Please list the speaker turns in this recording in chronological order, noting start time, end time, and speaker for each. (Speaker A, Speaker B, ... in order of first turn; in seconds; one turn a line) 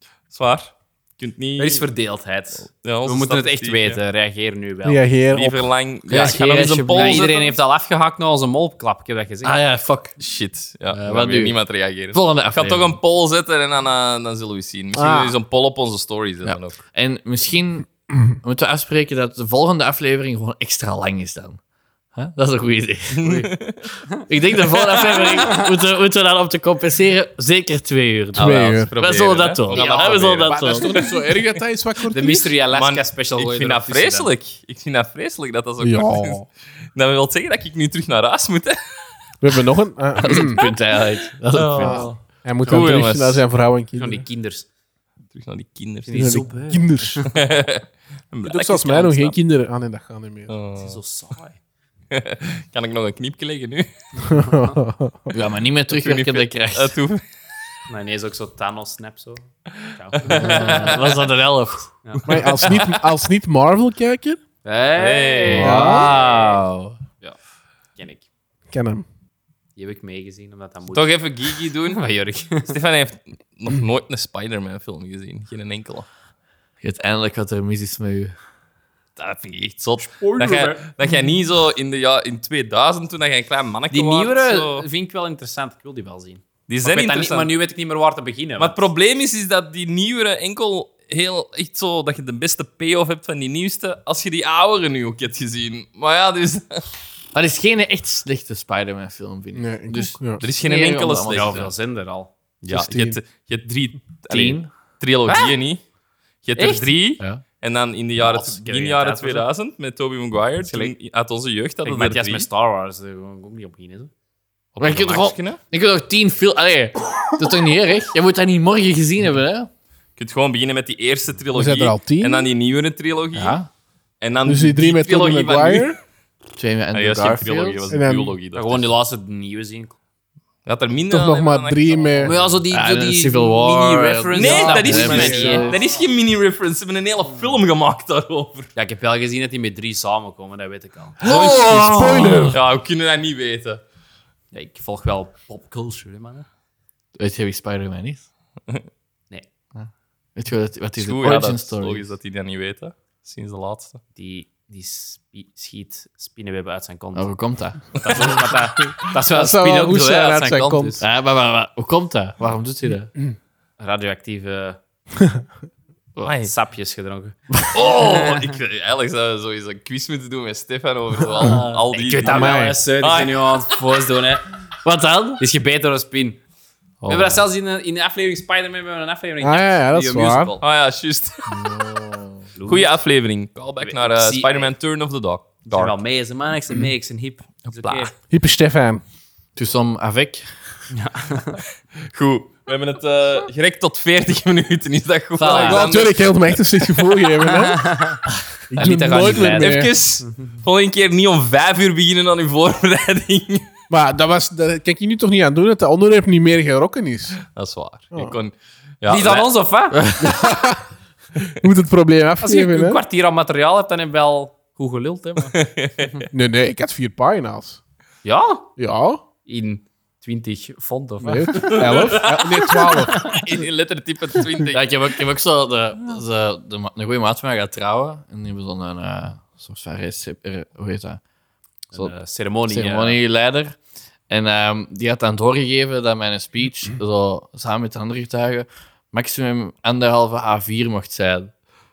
Speaker A: 0.3-1.9
Speaker B: 1.6-5.0
Speaker A: 2.6-4.0
Speaker C: 4.8-5.7
Speaker A: 5.3-7.4
Speaker D: 6.1-7.5
Speaker B: 6.1-9.6
Speaker D: 9.4-10.2
Speaker A: 10.2-16.8
Speaker D: 10.9-11.6
Speaker D: 12.1-13.0
Speaker C: 14.9-15.3
Speaker D: 16.4-21.6
Speaker D: 22.1-23.4
Speaker A: 23.1-23.9
Speaker D: 24.3-30.9
Speaker A: 24.7-25.2
Speaker C: 28.4-28.9
Speaker A: 28.4-31.1
Speaker B: 29.7-30.5
Speaker C: 30.5-32.5
Speaker B: 32.1-34.3
Speaker A: 32.7-38.8
Speaker C: 35.8-36.5
Speaker C: 39.4-40.6
Speaker D: 40.2-42.1
Speaker A: 41.5-43.4
Speaker C: 41.8-44.2
Speaker D: 42.7-43.0
Speaker B: 44.0-44.7
Speaker A: 45.3-46.5
Speaker B: 46.0-47.3
Speaker C: 46.2-47.3
Speaker A: 47.2-49.1
Speaker C: 48.4-50.5
Speaker B: 48.9-49.3
Speaker A: 50.5-51.0
Speaker B: 50.8-51.6
Speaker A: 52.1-53.9
Speaker C: 54.2-55.3
Speaker D: 55.3-57.0
Speaker A: 55.9-57.2
Speaker B: 57.9-61.2
Speaker A: 59.8-61.2
Speaker D: 60.3-61.9
Speaker B: 62.0-62.4
Speaker A: 62.2-63.0
Speaker C: 62.3-64.4
Speaker B: 64.6-66.6
Speaker A: 65.0-65.8
Speaker D: 65.4-67.0
Speaker C: 65.6-66.1
Speaker B: 68.0-68.2
Speaker C: 68.7-69.0
Speaker B: 69.8-72.8
Speaker A: 70.9-72.0
Speaker A: 72.5-76.1
Speaker D: 76.8-78.3
Speaker A: 79.2-84.9
Speaker B: 80.3-80.8
Speaker B: 83.9-88.9
Speaker A: 86.7-87.5
Speaker A: 88.6-96.8
Speaker D: 97.3-101.7
Speaker C: 99.5-100.4
Speaker A: 100.4-101.7
Speaker B: 101.3-102.3
Speaker A: 102.6-105.8
Speaker C: 102.7-103.2
Speaker D: 104.3-104.7
Speaker A: 106.4-112.5
Speaker B: 106.6-106.8
Speaker B: 108.2-109.5
Speaker B: 110.7-110.9
Speaker B: 111.8-114.1
Speaker A: 114.8-115.6
Speaker D: 114.8-119.7
Speaker A: 120.2-123.6
Speaker C: 121.5-122.5
Speaker D: 123.3-123.7
Speaker A: 124.2-126.0
Speaker C: 124.5-126.0
Speaker D: 126.6-127.8
Speaker A: 126.9-128.9
Speaker C: 127.9-128.3
Speaker B: 128.5-129.9
Speaker A: 130.7-132.5
Speaker C: 131.1-132.3
Speaker B: 132.2-135.7
Speaker D: 132.7-135.8
Speaker A: 134.4-138.7
Speaker C: 135.1-135.8
Speaker B: 138.8-141.8
Speaker D: 141.2-142.6
Speaker A: 141.2-141.6
Speaker C: 141.2-142.6
Speaker A: 142.5-143.8
Speaker B: 144.5-146.5
Speaker D: 147.2-148.2
Speaker D: 149.8-152.0
Speaker A: 151.0-154.0
Speaker B: 154.2-157.3
Speaker D: 157.2-158.3
Speaker B: 157.8-161.0
Speaker C: 159.3-161.0
Speaker D: 161.0-163.1
Speaker B: 163.8-164.8
Speaker A: 166.2-166.5
Speaker B: 166.4-168.2
Speaker D: 167.6-168.2
Speaker A: 167.7-173.6
Speaker B: 171.3-174.4
Speaker C: 172.2-172.8
Speaker D: 174.8-175.4
Speaker B: 175.4-176.4
Speaker A: 177.0-177.4
Speaker B: 177.1-180.6
Speaker C: 179.4-180.5
Speaker A: 180.6-181.5
Speaker D: 181.6-182.5
Speaker B: 182.6-182.9
Speaker A: 182.7-186.0
Speaker B: 183.8-184.7
Speaker B: 185.7-188.1
Speaker A: 187.7-188.1
Speaker C: 188.3-189.0
Speaker D: 189.6-190.5
Speaker B: 190.9-191.6
Speaker A: 192.1-197.5
Speaker B: 195.4-195.9
Speaker C: 195.5-198.0
Speaker B: 197.8-198.2
Speaker C: 198.7-199.9
Speaker B: 198.7-200.3
Speaker A: 199.3-203.7
Speaker C: 203.9-207.4
Speaker A: 207.5-209.5
Speaker B: 209.1-210.0
Speaker D: 209.9-210.4
Speaker C: 210.2-210.8
Speaker C: 211.6-213.0
Speaker B: 212.4-216.2
Speaker A: 215.5-216.2
Speaker C: 216.3-217.8
Speaker B: 218.2-218.7
Speaker C: 218.8-219.2
Speaker B: 219.5-221.8
Speaker C: 221.2-223.3
Speaker A: 221.6-224.9
Speaker D: 224.7-231.2
Speaker B: 231.9-233.2
Speaker D: 232.7-233.8
Speaker D: 234.3-241.5